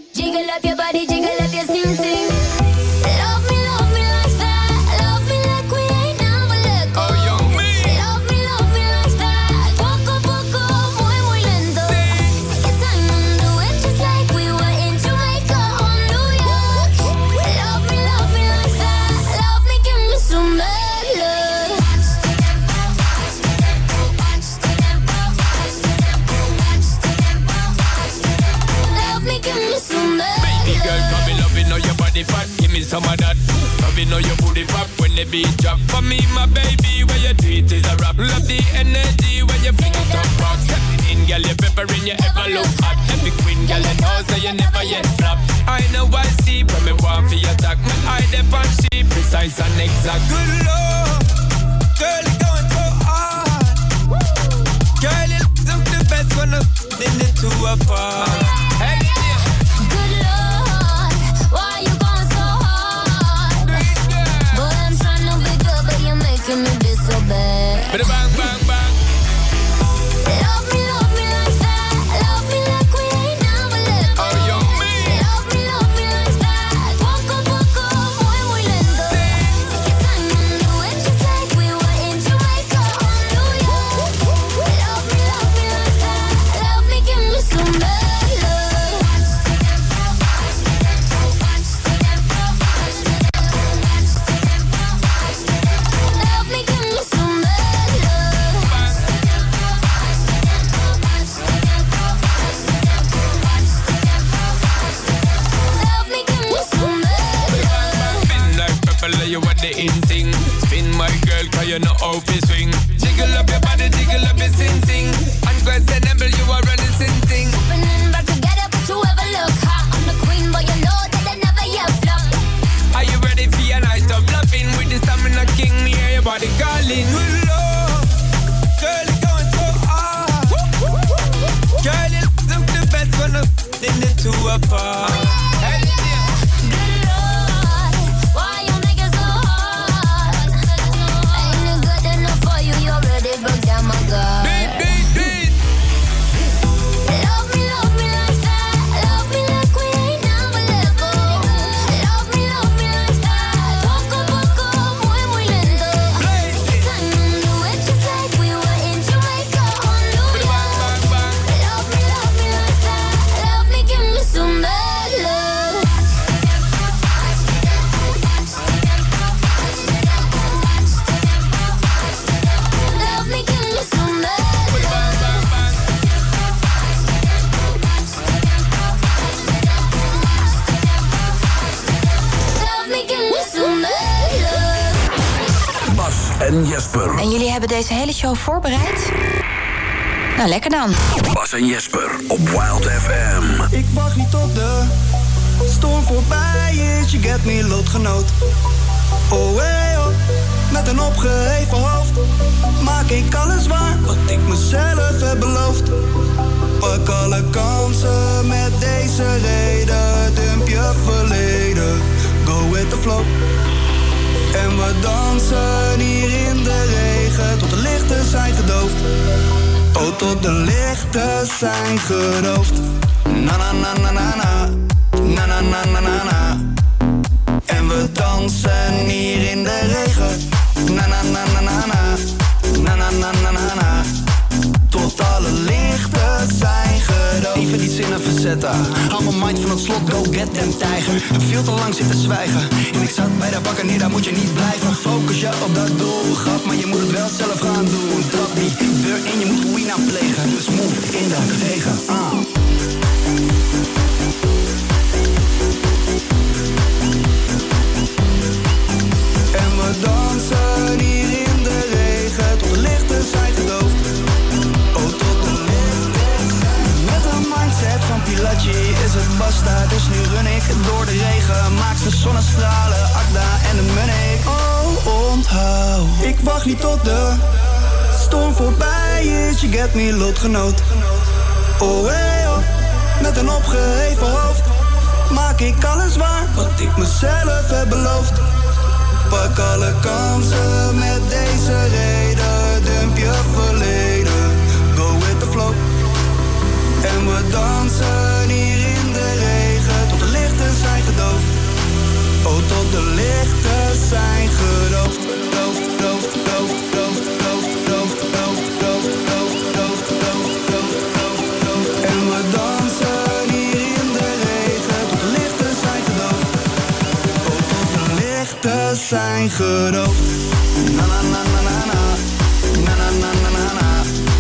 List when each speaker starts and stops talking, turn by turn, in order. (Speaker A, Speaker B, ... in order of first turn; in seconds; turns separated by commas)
Speaker A: 0.1-22.3, Speaker B: 6.9-8.1, Speaker B: 11.8-12.4, Speaker A: 24.2-25.8, Speaker A: 26.4-27.0, Speaker A: 28.7-31.0, Speaker B: 30.4-51.3, Speaker A: 39.8-40.7, Speaker A: 42.1-45.1, Speaker B: 52.0-53.8, Speaker B: 55.0-59.4, Speaker A: 59.8-63.9, Speaker B: 63.6-64.7, Speaker A: 64.5-68.1, Speaker B: 67.9-69.0, Speaker A: 70.2-89.4, Speaker B: 74.2-75.3, Speaker B: 79.1-79.6, Speaker A: 91.6-92.2, Speaker A: 92.9-93.3, Speaker A: 96.0-98.8, Speaker B: 98.6-99.0, Speaker A: 105.7-108.3, Speaker B: 107.5-117.6, Speaker A: 117.5-122.4, Speaker B: 122.9-128.1, Speaker B: 128.8-130.6, Speaker B: 131.8-136.3, Speaker A: 136.6-145.2, Speaker B: 144.4-145.5, Speaker A: 147.1-166.1, Speaker B: 156.1-156.9, Speaker B: 160.3-161.4, Speaker A: 172.7-175.4, Speaker B: 174.7-175.8, Speaker A: 182.5-185.0, Speaker C: 185.9-187.2, Speaker D: 187.2-189.1, Speaker D: 190.4-191.0, Speaker C: 191.2-193.7, Speaker E: 193.7-194.9, Speaker E: 195.6-198.3, Speaker E: 199.3-202.2, Speaker E: 202.8-205.9, Speaker E: 206.8-213.3, Speaker E: 214.5-219.0, Speaker E: 219.9-226.7, Speaker E: 227.7-234.2, Speaker E: 234.9-252.4, Speaker E: 259.5-264.1, Speaker E: 264.9-277.4, Speaker E: 278.1-281.2, Speaker E: 281.8-284.7, Speaker E: 285.3-288.5, Speaker E: 289.3-295.9, Speaker E: 297.0-301.5, Speaker E: 302.4-316.5, Speaker E: 317.4-324.1